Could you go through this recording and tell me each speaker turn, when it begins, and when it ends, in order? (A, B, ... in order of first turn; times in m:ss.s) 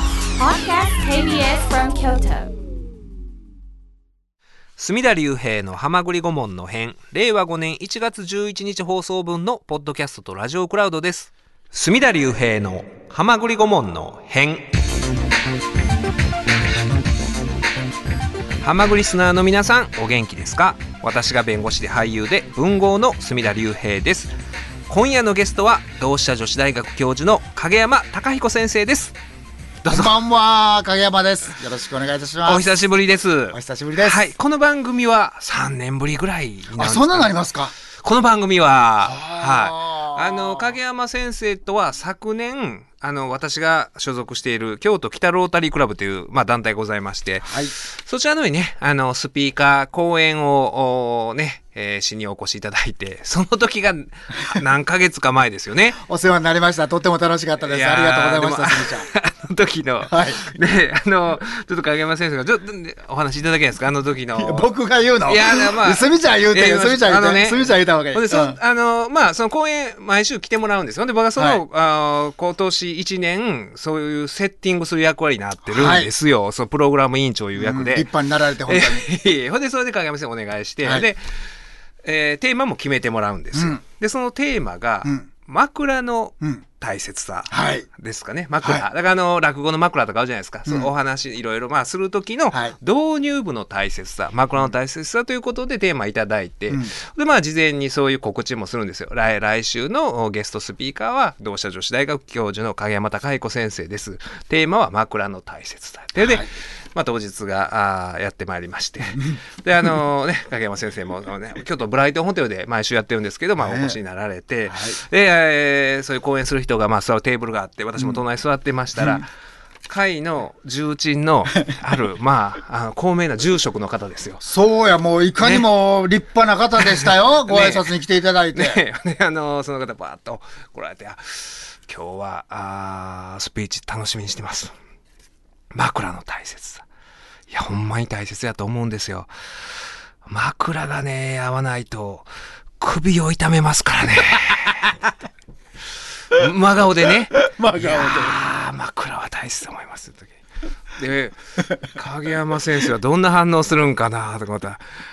0:00.4-0:02.5 A
0:04.8-0:14.7 B
0:18.6-0:24.3 B
0:24.9-0:29.1 B
0:29.8-0:30.1 B
0:29.9-0:32.6 C
0:32.4-0:37.4 B
0:33.5-0:34.2 C
0:36.8-0:37.7 C
0:38.0-0:56.0 B
0:39.0-0:40.7 C
0:47.4-0:47.7 C
0:56.0-0:59.1 C
0:57.6-1:04.7 B
1:00.1-1:00.4 C
1:04.4-1:08.6 C
1:05.3-1:18.1 B
1:15.6-1:16.1 C
1:17.6-1:19.0 C
1:18.7-1:21.5 B
1:22.0-1:59.3 B
1:23.5-1:23.8 C
1:27.5-1:27.9 C
1:46.2-1:46.5 C
1:53.6-1:54.0 C
1:54.7-1:55.0 C
1:59.0-1:59.2 C
1:59.8-2:04.4 B
2:04.4-2:08.8 C
2:05.4-2:05.6 B
2:06.8-2:07.9 B
2:08.5-2:14.7 B
2:15.7-2:16.8 B
2:17.5-2:19.3 B
2:20.2-2:22.3 B
2:22.8-2:24.9 B
2:26.3-2:30.4 B
2:27.4-2:28.4 C
2:31.0-2:34.8 B